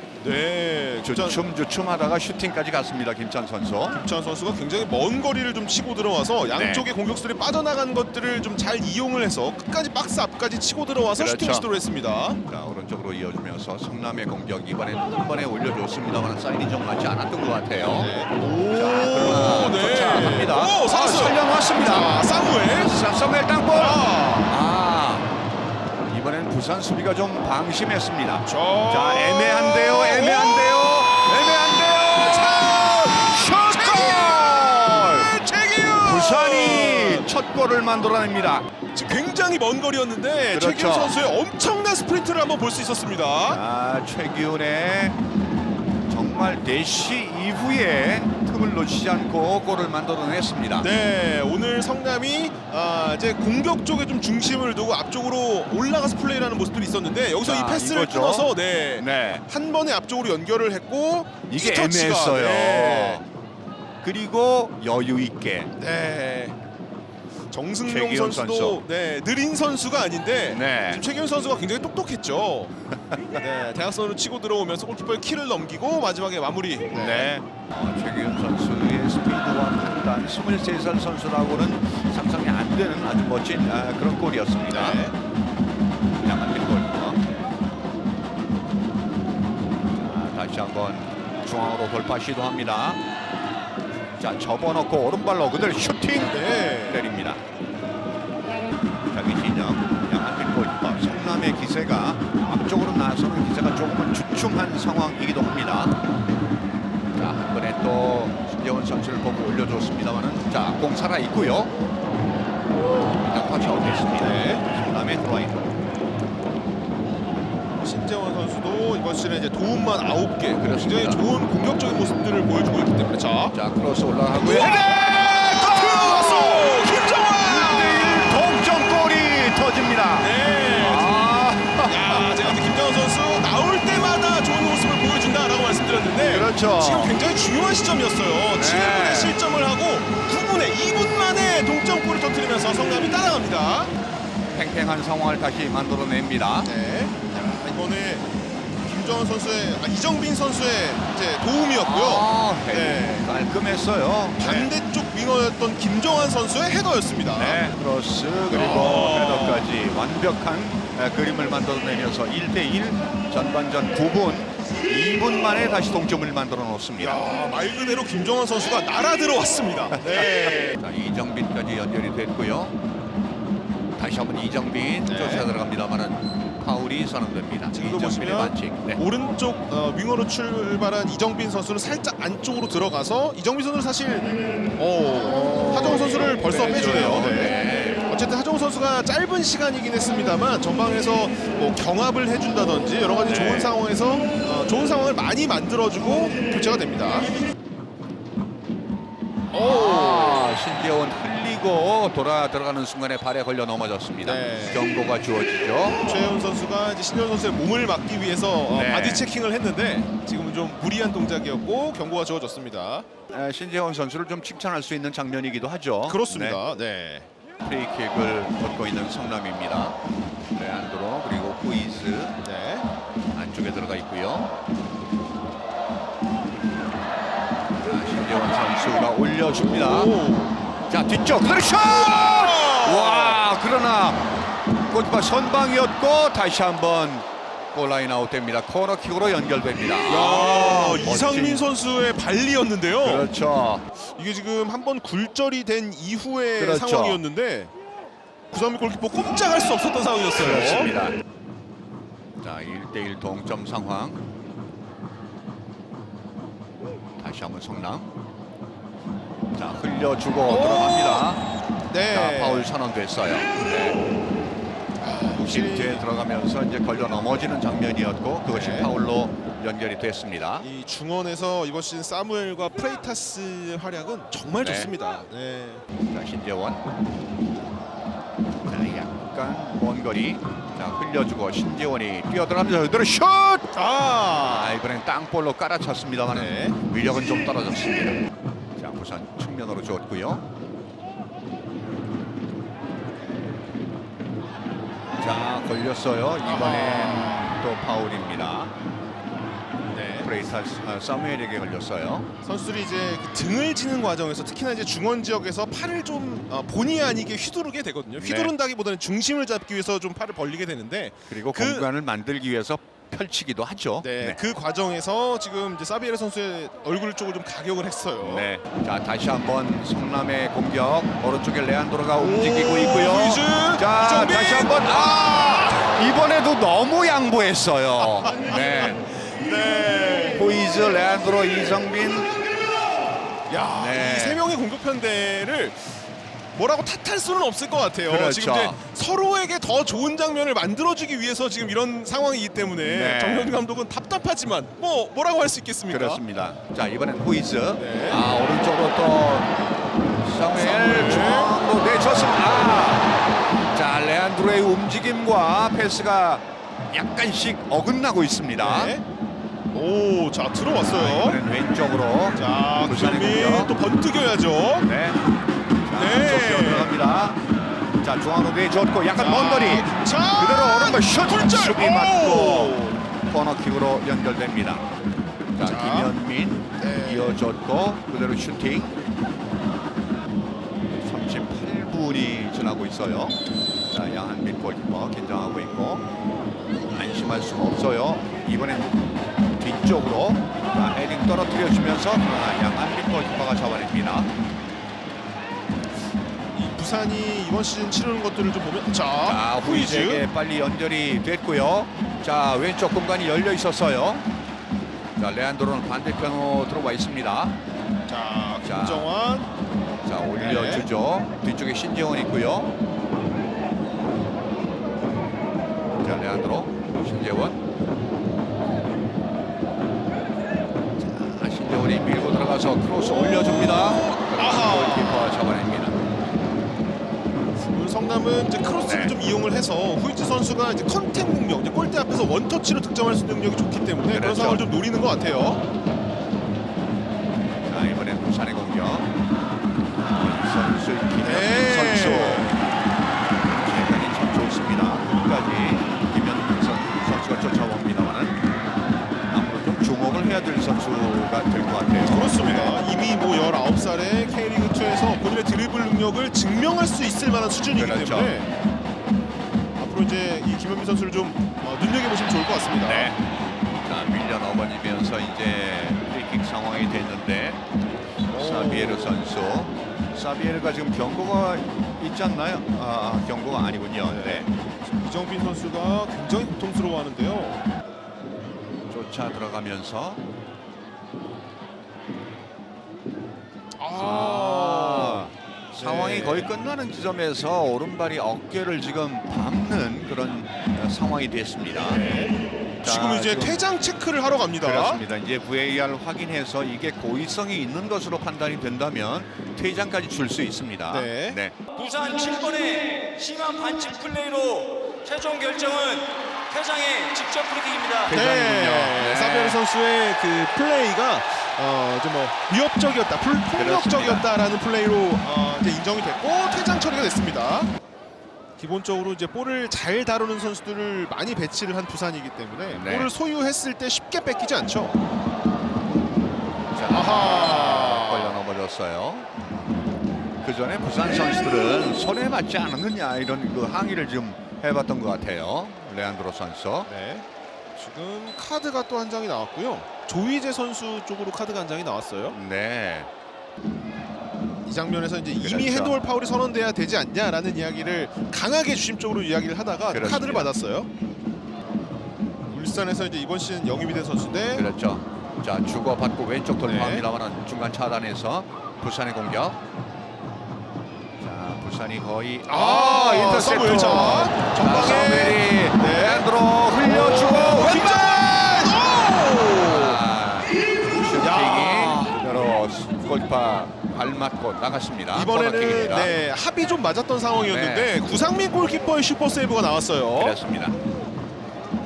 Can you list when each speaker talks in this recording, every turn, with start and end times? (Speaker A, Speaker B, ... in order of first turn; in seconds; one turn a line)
Speaker A: 0.2-1.4
Speaker B: 1.0-4.0
Speaker A: 3.9-12.4
Speaker B: 6.5-6.9
Speaker B: 11.2-11.7
Speaker B: 12.4-22.1
Speaker A: 17.9-22.9
Speaker B: 22.7-25.3
Speaker A: 23.7-24.6
Speaker B: 26.1-35.3
Speaker A: 28.4-37.3
Speaker B: 36.0-38.7
Speaker A: 38.9-43.6
Speaker B: 40.5-41.1
Speaker B: 43.5-45.2
Speaker B: 46.1-50.9
Speaker A: 50.8-63.2
Speaker B: 57.4-59.4
Speaker B: 61.5-63.2
Speaker B: 64.0-65.7
Speaker A: 65.8-66.6
Speaker A: 67.5-72.7
Speaker B: 67.9-68.8
Speaker B: 70.5-71.0
Speaker B: 72.9-73.4
Speaker A: 73.4-77.3
Speaker B: 76.9-85.0
Speaker A: 84.7-85.2
Speaker B: 86.2-87.3
Speaker B: 90.0-93.0
Speaker B: 94.2-97.4
Speaker A: 96.3-97.0
Speaker B: 99.1-106.0
Speaker B: 107.1-111.7
Speaker B: 113.1-115.7
Speaker A: 114.2-114.7
Speaker A: 117.8-123.5
Speaker B: 120.6-121.3
Speaker B: 123.4-126.8
Speaker A: 124.3-128.6
Speaker B: 127.4-132.5
Speaker A: 130.2-131.2
Speaker A: 131.8-143.9
Speaker B: 136.3-137.2
Speaker B: 138.5-139.4
Speaker B: 144.5-146.7
Speaker A: 146.6-148.3
Speaker A: 148.8-153.3
Speaker B: 151.8-154.7
Speaker A: 154.4-157.6
Speaker B: 157.3-167.2
Speaker A: 158.5-159.7
Speaker A: 167.0-170.8
Speaker B: 170.2-172.8
Speaker B: 174.0-179.0
Speaker A: 175.1-175.5
Speaker A: 177.7-197.3
Speaker B: 185.2-188.0
Speaker B: 193.2-193.8
Speaker A: 199.5-200.5
Speaker B: 199.6-206.2
Speaker A: 204.2-204.8
Speaker A: 206.0-213.1
Speaker B: 208.7-209.2
Speaker B: 213.3-216.6
Speaker A: 216.1-217.3
Speaker B: 217.6-220.0
Speaker B: 220.6-222.4
Speaker A: 222.4-222.9
Speaker B: 223.3-224.5
Speaker B: 227.8-230.2
Speaker A: 229.5-230.6
Speaker B: 230.9-234.3
Speaker A: 231.9-233.4
Speaker B: 234.9-241.7
Speaker A: 240.1-243.3
Speaker B: 243.0-243.8
Speaker A: 244.2-247.7
Speaker B: 246.6-247.2
Speaker A: 248.5-250.9
Speaker B: 250.4-251.2
Speaker B: 252.4-254.2
Speaker B: 257.2-258.1
Speaker B: 259.5-261.4
Speaker A: 260.5-261.4
Speaker A: 261.9-262.7
Speaker B: 262.1-264.0
Speaker A: 265.0-266.1
Speaker B: 265.4-270.7
Speaker A: 268.5-268.9
Speaker A: 270.6-275.8
Speaker B: 274.6-274.9
Speaker B: 276.1-276.8
Speaker B: 278.7-283.7
Speaker A: 283.7-284.8
Speaker B: 284.4-288.2
Speaker A: 286.3-286.8
Speaker B: 288.8-290.4
Speaker B: 295.2-298.7
Speaker A: 296.4-297.5
Speaker A: 299.9-300.3
Speaker B: 300.2-302.3
Speaker A: 302.4-311.9
Speaker B: 308.2-308.5
Speaker B: 311.3-314.4
Speaker A: 314.0-318.5
Speaker B: 318.2-329.0
Speaker A: 322.1-325.9
Speaker A: 328.2-330.4
Speaker B: 330.3-332.4
Speaker A: 333.5-336.0
Speaker B: 333.8-334.4
Speaker A: 336.5-346.2
Speaker B: 338.1-338.8
Speaker B: 342.8-343.6
Speaker B: 345.9-353.1
Speaker A: 347.8-348.2
Speaker A: 350.5-351.6
Speaker B: 353.7-358.9
Speaker A: 358.6-359.0
Speaker A: 359.7-361.4
Speaker B: 360.8-363.7
Speaker A: 362.4-364.9
Speaker B: 364.8-365.2
Speaker B: 365.9-367.4
Speaker A: 365.9-366.9
Speaker B: 368.0-374.9
Speaker A: 369.1-373.0
Speaker B: 375.6-379.0
Speaker A: 375.6-376.1
Speaker A: 376.8-377.4
Speaker B: 381.0-386.1
Speaker B: 386.9-388.9
Speaker B: 389.6-394.3
Speaker A: 396.5-400.3
Speaker B: 399.2-404.3
Speaker B: 405.2-407.6
Speaker A: 408.1-409.5
Speaker B: 408.6-409.1
Speaker B: 410.0-412.7
Speaker A: 410.4-410.9
Speaker B: 416.0-417.6
Speaker B: 421.0-426.0
Speaker A: 422.9-425.4
Speaker A: 427.6-435.6
Speaker B: 428.8-429.1
Speaker B: 434.1-434.6
Speaker B: 437.7-439.1
Speaker B: 440.1-442.6
Speaker A: 441.2-442.6
Speaker B: 443.5-448.4
Speaker B: 449.3-452.8
Speaker A: 452.0-458.5
Speaker B: 457.7-458.4
Speaker A: 459.8-463.1
Speaker B: 462.8-463.2
Speaker B: 463.8-467.6
Speaker A: 468.3-469.2
Speaker B: 468.3-474.5
Speaker A: 474.1-477.6
Speaker B: 478.9-480.2
Speaker A: 483.8-486.5
Speaker B: 484.0-492.1
Speaker A: 491.9-495.0
Speaker B: 492.8-493.6
Speaker B: 494.6-501.6
Speaker A: 500.9-501.4
Speaker C: 501.7-508.1
Speaker B: 508.1-509.6
Speaker A: 508.1-517.7
Speaker B: 513.6-514.3
Speaker A: 518.6-525.0
Speaker B: 522.7-523.1
Speaker B: 526.7-529.3
Speaker A: 526.9-528.4
Speaker B: 530.4-536.9
Speaker A: 536.9-542.4
Speaker B: 542.3-543.1
Speaker A: 544.6-550.9
Speaker B: 545.4-546.0
Speaker B: 549.9-550.5
Speaker A: 552.5-554.7
Speaker B: 554.5-559.6
Speaker A: 556.6-557.0
Speaker B: 561.2-568.1
Speaker A: 562.5-566.3
Speaker A: 566.8-570.0
Speaker B: 569.6-576.2
Speaker A: 571.2-572.2
Speaker A: 575.1-580.4
Speaker B: 577.4-578.1
Speaker B: 580.2-580.8